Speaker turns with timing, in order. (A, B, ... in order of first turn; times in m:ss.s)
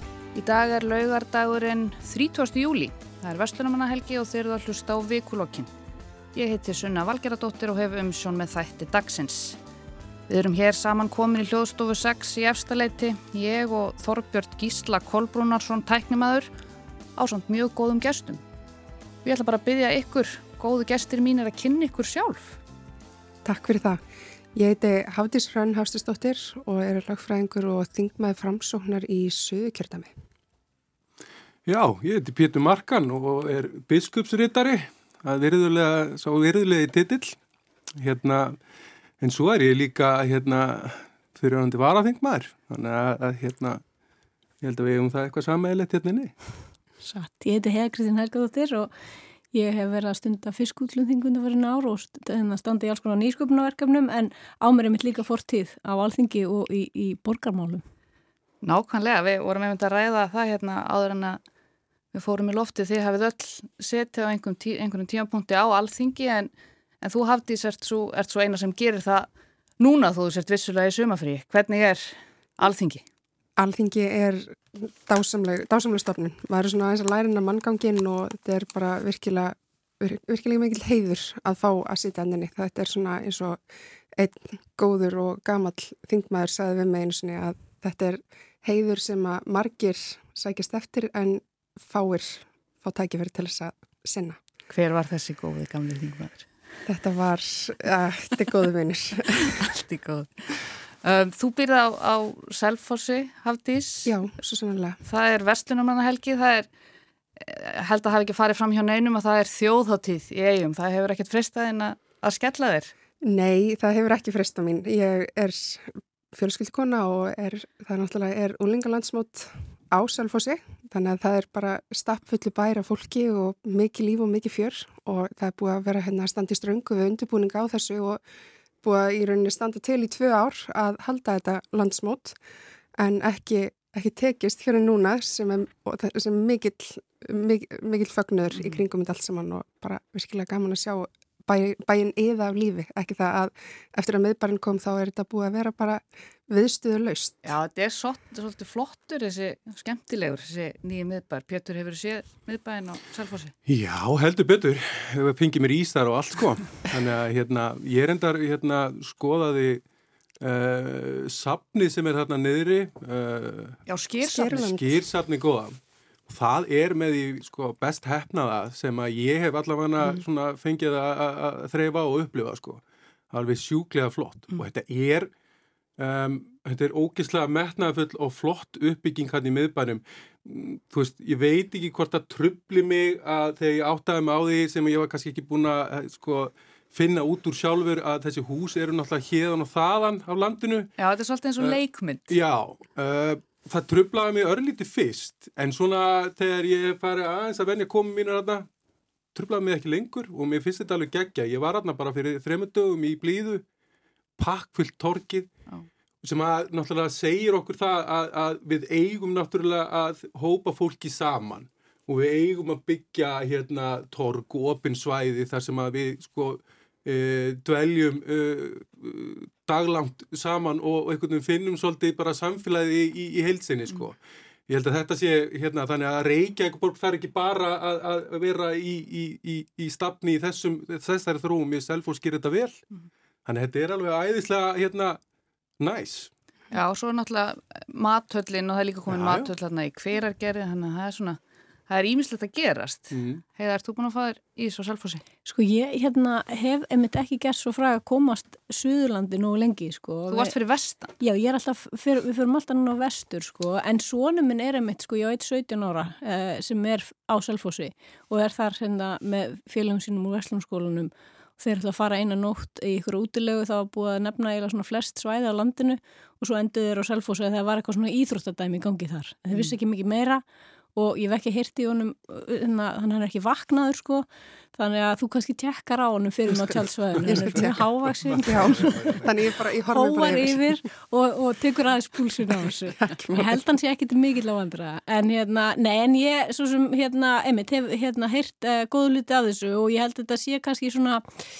0:00.3-0:05.7 A
0:06.3-0:09.6 A
0:10.3-0:16.5 A
0:17.2-0:18.4 A
0:19.2-0:22.6 A
0:23.4-0:30.1 B
0:31.6-0:37.4 C
0:38.0-0:38.6 C
0:39.2-0:43.8 C
0:44.6-0:46.3 C
0:47.0-0:48.9 D
0:49.5-0:57.8 D
0:58.6-1:01.4 A
1:02.1-1:13.0 A
1:13.6-1:23.6 B
1:24.1-1:34.4 B
1:34.7-1:36.5 A
1:36.8-1:39.6 B
1:39.3-1:44.1 A
1:44.0-1:45.0 B
1:45.0-1:46.7 A
1:47.4-1:52.9 A
1:53.2-2:08.2 B
2:08.8-2:12.4 B
2:13.0-2:27.5 B
2:27.4-2:33.5 A
2:33.7-2:39.8 C
2:40.4-2:43.8 C
2:43.9-2:44.6 A
2:44.2-2:44.9 B
2:44.4-2:45.7 C
2:46.3-2:55.3 C
2:56.0-3:10.9 C
3:11.0-3:12.3 A
3:12.3-3:18.7 C
3:19.3-3:23.6 C
3:24.4-3:25.5 C
3:26.2-3:44.2 C
3:44.7-3:52.8 C
3:53.4-3:55.2 C
3:55.8-3:56.3 C
3:56.7-4:05.2 A
3:59.1-3:59.5 C
4:03.1-4:03.4 C
4:05.4-4:10.5 D
4:10.3-4:11.1 A
4:11.2-4:30.4 D
4:30.9-4:39.2 D
4:37.3-4:37.8 B
4:38.4-4:40.6 B
4:38.7-4:39.2 C
4:39.9-4:51.3 D
4:43.0-4:43.4 B